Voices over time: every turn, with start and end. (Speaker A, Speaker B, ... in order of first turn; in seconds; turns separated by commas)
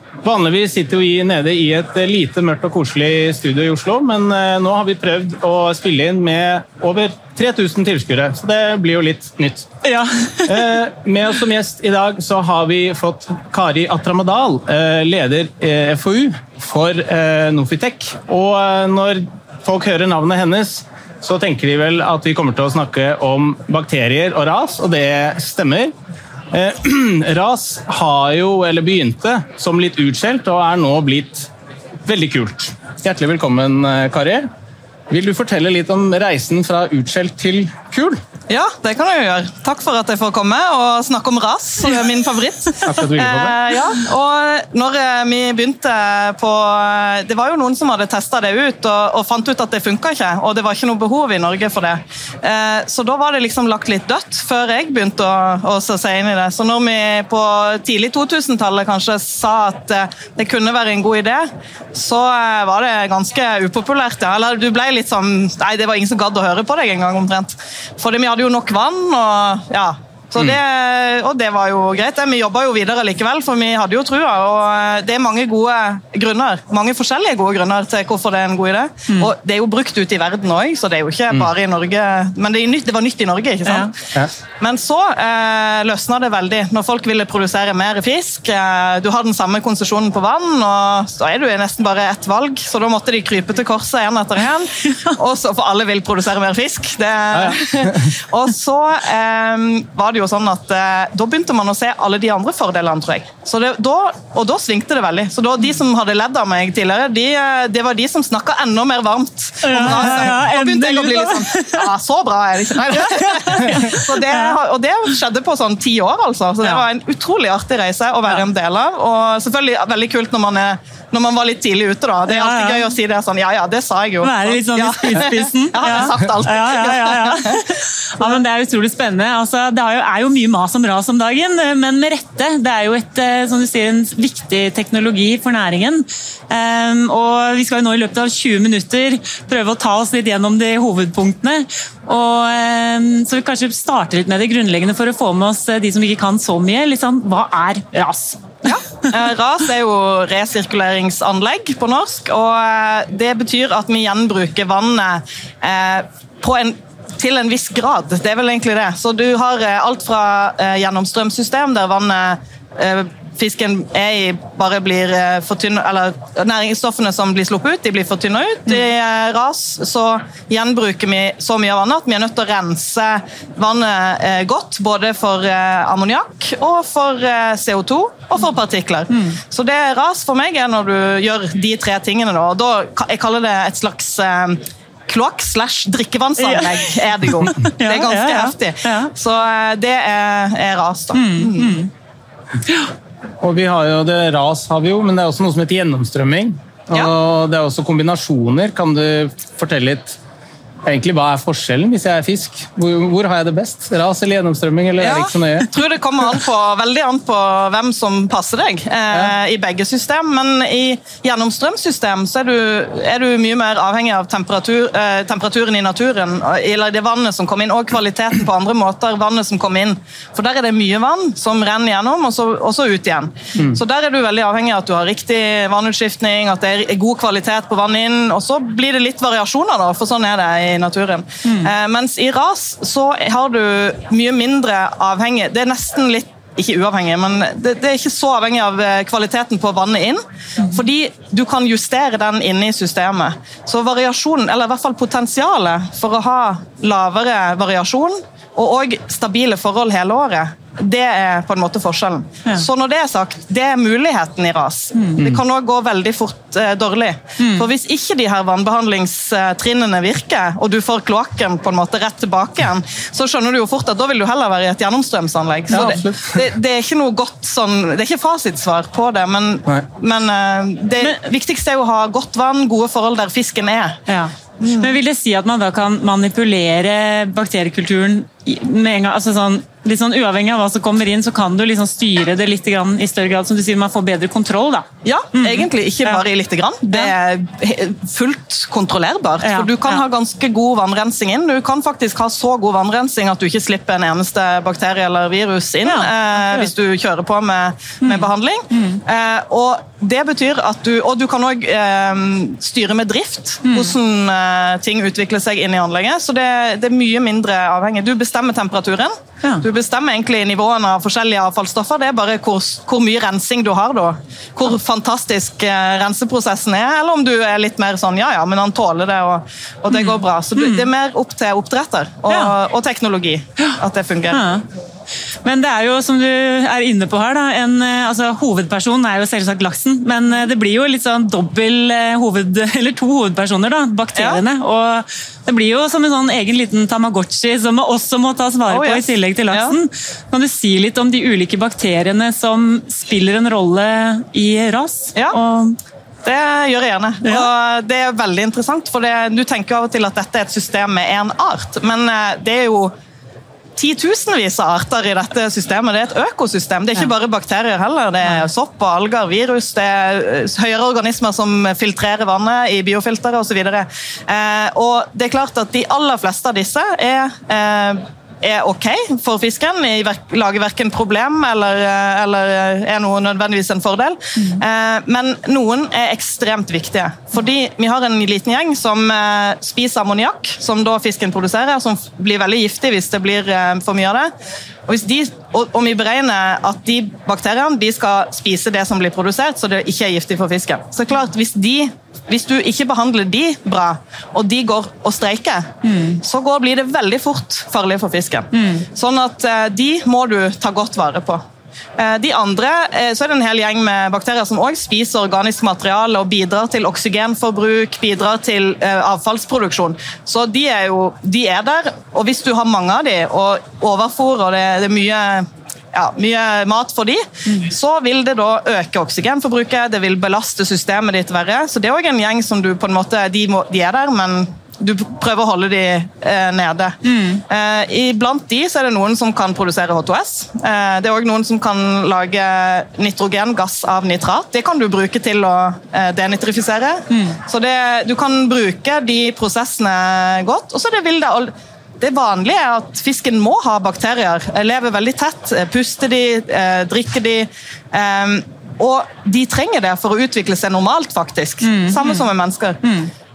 Speaker A: 0.2-9.7, Speaker B: 9.8-10.7, Speaker A: 10.5-25.9, Speaker A: 26.5-31.5, Speaker A: 32.1-34.5, Speaker A: 35.1-38.2, Speaker C: 38.5-84.1, Speaker A: 42.8-43.6, Speaker B: 83.7-83.9, Speaker C: 84.6-127.7, Speaker A: 97.3-98.1, Speaker B: 109.6-111.9, Speaker B: 112.8-114.6, Speaker B: 122.3-122.9, Speaker B: 124.2-148.6, Speaker C: 148.7-191.8, Speaker B: 186.4-189.1, Speaker B: 191.2-191.9, Speaker A: 193.4-200.2, Speaker A: 200.8-205.7, Speaker C: 205.0-274.0, Speaker B: 254.9-255.3, Speaker B: 257.4-257.7, Speaker A: 265.7-266.4, Speaker B: 274.1-286.2, Speaker C: 274.6-274.9, Speaker C: 285.0-324.4, Speaker B: 289.4-290.0, Speaker B: 295.9-296.7, Speaker B: 298.0-299.0, Speaker B: 303.7-303.9, Speaker B: 319.9-320.9, Speaker B: 324.3-324.6, Speaker B: 325.4-345.8, Speaker C: 334.1-334.4, Speaker C: 338.7-339.8, Speaker C: 346.2-352.9, Speaker B: 347.2-347.5, Speaker C: 353.8-384.3, Speaker C: 384.9-401.4, Speaker B: 395.8-396.2, Speaker B: 398.5-398.9, Speaker C: 402.0-452.8, Speaker B: 427.0-427.4, Speaker B: 437.1-437.4, Speaker B: 451.6-452.3, Speaker B: 452.8-453.1